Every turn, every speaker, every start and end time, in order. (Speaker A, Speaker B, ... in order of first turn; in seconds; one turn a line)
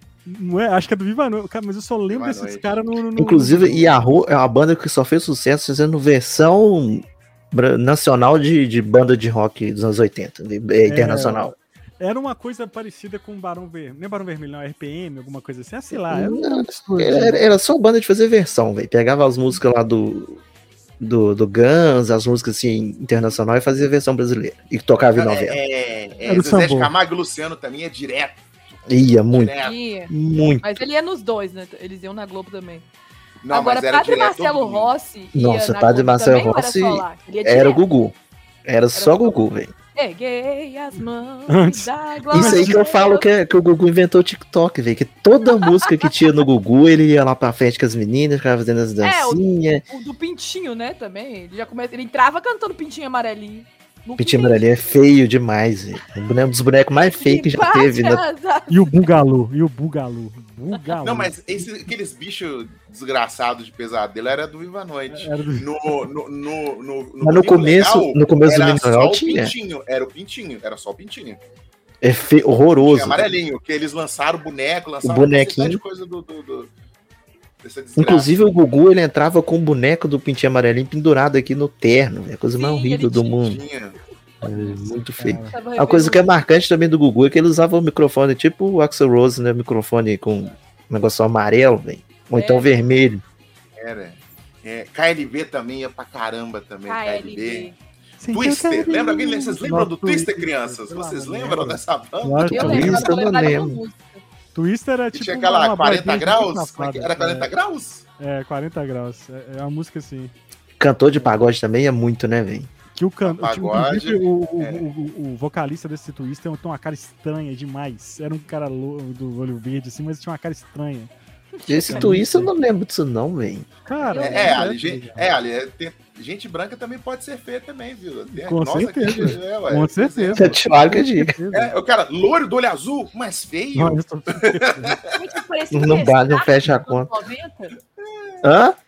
Speaker A: 0.3-4.1
Speaker B: 2.1-2.8
Speaker C: 3.2-11.5
Speaker A: 10.9-17.5
Speaker C: 16.1-20.4
Speaker C: 21.0-25.6
Speaker B: 25.1-28.4
Speaker A: 26.3-26.9
Speaker C: 28.9-29.6
Speaker B: 29.3-29.8
Speaker D: 29.6-32.9
Speaker C: 30.1-30.8
Speaker B: 33.4-34.9
Speaker D: 33.5-37.8
Speaker C: 35.4-39.7
Speaker D: 38.9-39.4
Speaker D: 40.0-43.3
Speaker A: 41.5-42.8
Speaker C: 42.3-49.8
Speaker D: 49.0-54.7
Speaker C: 54.2-58.2
Speaker D: 57.1-59.1
Speaker A: 58.7-61.6
Speaker B: 61.0-71.4
Speaker A: 65.1-65.7
Speaker C: 67.2-69.5
Speaker C: 72.0-73.3
Speaker B: 72.8-76.7
Speaker C: 75.0-75.8
Speaker B: 77.6-78.3
Speaker C: 78.0-83.6
Speaker D: 82.5-83.4
Speaker B: 83.4-84.0
Speaker C: 84.4-93.2
Speaker A: 85.2-85.6
Speaker D: 85.5-86.3
Speaker D: 92.3-92.7
Speaker B: 93.8-97.7
Speaker D: 96.9-97.8
Speaker A: 98.2-103.1
Speaker B: 98.3-103.2
Speaker D: 102.5-104.2
Speaker C: 102.6-103.8
Speaker A: 104.5-107.5
Speaker B: 105.1-108.0
Speaker A: 108.2-110.3
Speaker C: 110.8-112.7
Speaker A: 113.0-121.1
Speaker B: 113.2-114.8
Speaker D: 121.5-122.1
Speaker C: 121.7-123.7
Speaker A: 121.9-122.5
Speaker A: 123.9-125.3
Speaker D: 124.0-124.7
Speaker B: 124.2-130.6
Speaker A: 128.3-131.7
Speaker C: 130.4-131.4
Speaker B: 131.5-135.2
Speaker A: 133.8-135.0
Speaker D: 135.1-137.8
Speaker C: 135.7-137.1
Speaker B: 138.0-138.4
Speaker C: 138.4-138.8